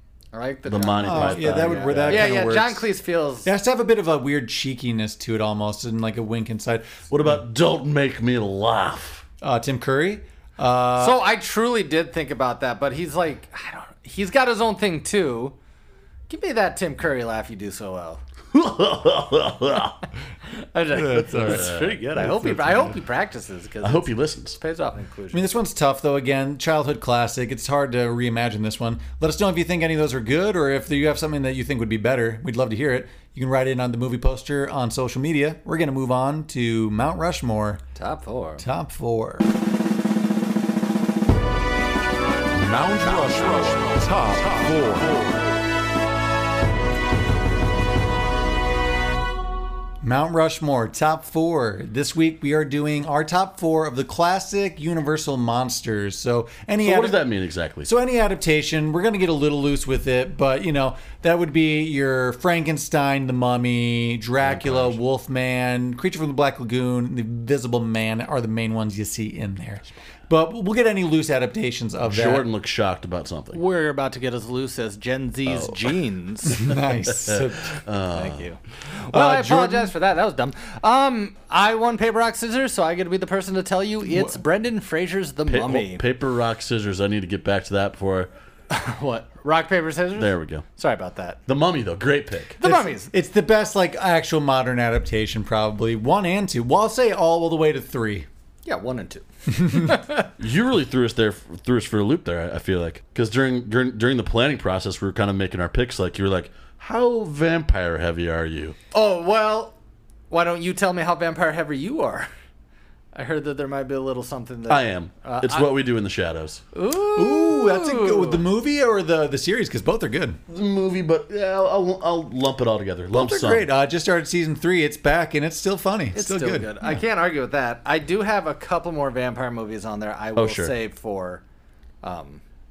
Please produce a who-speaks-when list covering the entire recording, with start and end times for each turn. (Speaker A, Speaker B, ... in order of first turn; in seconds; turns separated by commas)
Speaker A: 0.3-3.5, Speaker B: 0.7-2.3, Speaker C: 1.1-2.9, Speaker C: 3.4-7.0, Speaker B: 7.1-9.2, Speaker C: 9.4-11.2, Speaker A: 11.0-15.6, Speaker A: 16.3-18.2, Speaker B: 18.5-20.0, Speaker A: 20.6-25.4, Speaker C: 20.9-23.0, Speaker B: 21.4-22.0, Speaker B: 23.8-24.6, Speaker C: 25.3-37.8, Speaker A: 37.9-38.6, Speaker C: 38.6-39.5, Speaker B: 42.5-45.3, Speaker C: 50.0-57.2, Speaker B: 56.8-57.9, Speaker C: 57.8-72.5, Speaker B: 64.4-64.9, Speaker B: 72.0-73.6, Speaker A: 73.5-76.6, Speaker B: 75.5-75.9, Speaker C: 76.5-77.8, Speaker B: 76.5-78.4, Speaker A: 78.1-86.0, Speaker C: 79.1-79.9, Speaker C: 84.1-84.3, Speaker B: 85.5-88.3, Speaker A: 88.7-91.4, Speaker B: 90.2-90.6, Speaker B: 91.5-92.6, Speaker A: 92.6-93.1, Speaker C: 92.6-98.3, Speaker A: 98.7-100.2, Speaker B: 100.4-108.8, Speaker A: 108.9-109.8, Speaker A: 110.3-112.3, Speaker A: 113.1-115.7, Speaker B: 114.7-116.6, Speaker A: 116.7-118.4, Speaker C: 117.2-120.4, Speaker B: 120.5-123.7, Speaker C: 123.1-127.0, Speaker A: 126.1-131.4, Speaker B: 130.4-130.7, Speaker A: 132.0-132.4